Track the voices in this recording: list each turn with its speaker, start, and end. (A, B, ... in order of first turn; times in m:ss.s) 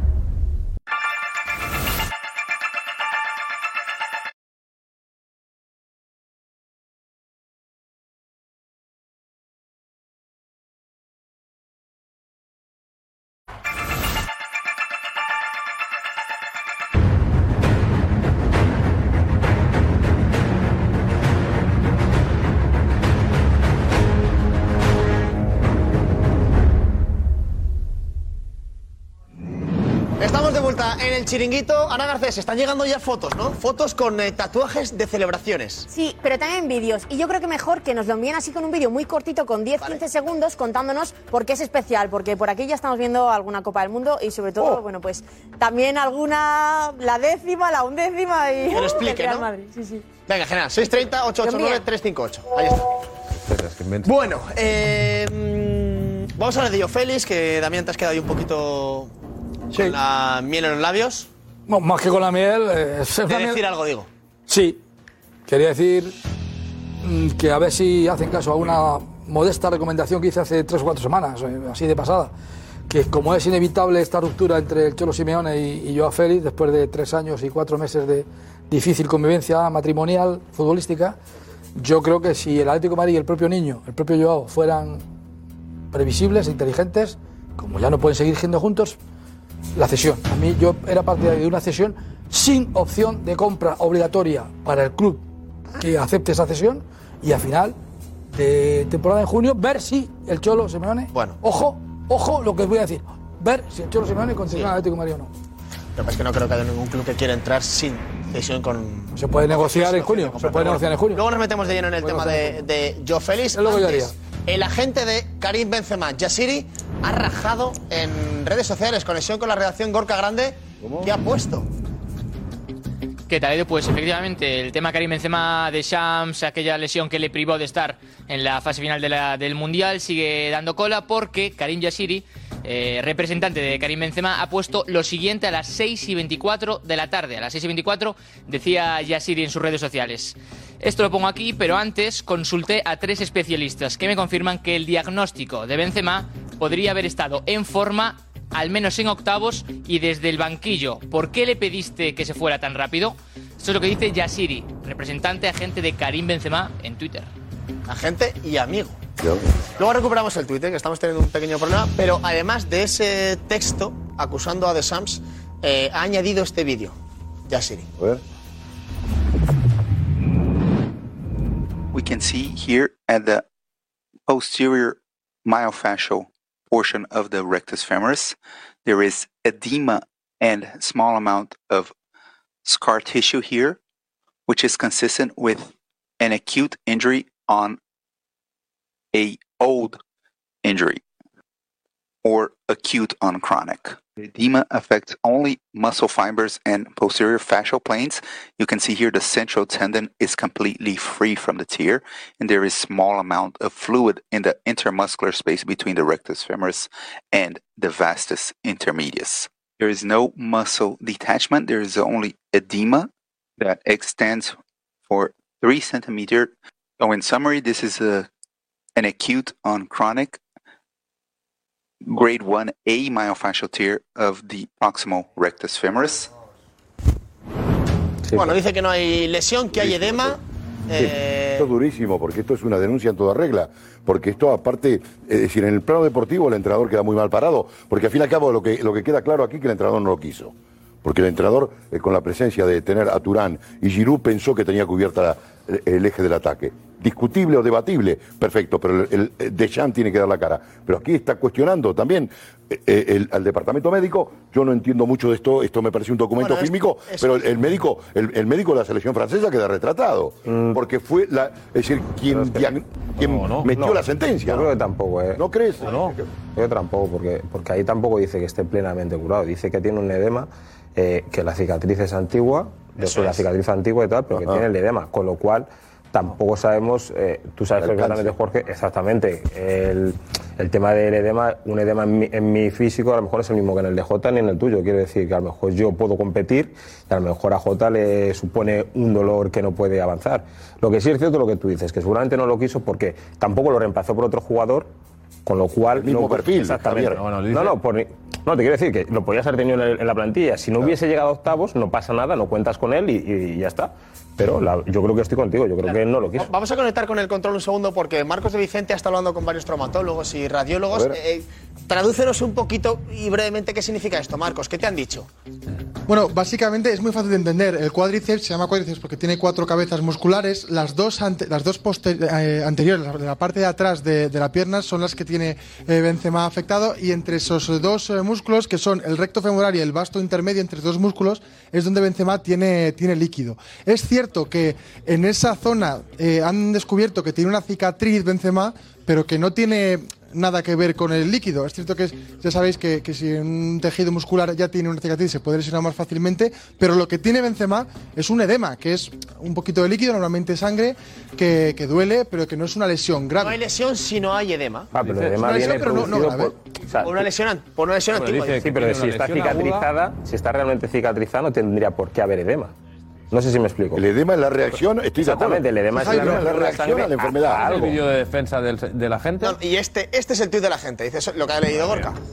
0:30.2-0:35.9 A
0:35.9-0:50.1 B
0:48.7-0:49.4 A
0:50.3-0:52.8 A
0:51.4-0:51.8 B
0:53.4-0:54.1 C
0:54.0-0:59.1 A
0:59.7-1:01.3 A
1:01.7-1:03.6 D
1:03.3-1:04.1 A
1:04.5-1:04.8 D
1:05.5-1:06.1 D
1:07.0-1:12.3 D
1:12.9-1:21.2 D
1:21.8-1:25.0 D
1:25.9-1:29.0 D
1:29.8-1:35.2 D
1:35.8-1:37.8 D
1:38.3-1:45.3 D
1:41.1-1:41.4 A
1:46.0-2:01.7 A
1:49.1-1:51.2 D
1:52.0-1:52.6 D
1:53.5-1:54.1 D
2:00.8-2:01.1 E
2:03.3-2:37.3 F
2:37.9-2:39.0 A
2:39.2-2:39.5 E
2:39.8-2:47.0 A
2:47.5-2:47.8 A
2:51.9-2:53.4 G
2:54.3-3:01.9 G
3:02.6-3:03.8 G
3:04.5-3:07.8 G
3:09.1-3:10.0 G
3:10.6-3:11.0 G
3:12.2-3:34.6 G
3:35.1-3:38.3 G
3:39.0-3:40.4 G
3:42.0-3:46.3 G
3:48.3-3:48.5 H
3:48.3-3:51.7 A
3:49.8-3:50.4 E
3:51.6-4:24.7 E
4:16.4-4:17.2 A
4:20.5-4:20.8 H
4:22.3-4:22.7 H
4:23.2-4:23.7 C
4:23.8-4:25.4 H
4:25.4-4:26.2 E
4:25.8-4:26.2 C
4:26.5-4:54.9 H
4:33.0-4:33.4 A
4:34.3-4:34.6 E
4:37.8-4:38.3 E
4:55.4-5:06.5 H
4:55.9-4:57.2 E
4:57.2-4:57.7 C
5:05.8-5:15.3 A
5:16.1-5:53.6 I
5:53.4-5:54.9 A
5:54.9-5:57.2 H
5:55.0-5:55.4 C
5:55.4-5:56.6 I
5:57.0-5:58.5 A
5:58.1-5:59.9 C
5:58.6-6:02.7 H
6:03.3-6:04.0 H
6:03.9-6:07.6 E
6:05.2-6:08.0 H
6:05.9-6:06.4 I
6:07.5-6:09.6 C
6:09.4-6:12.1 A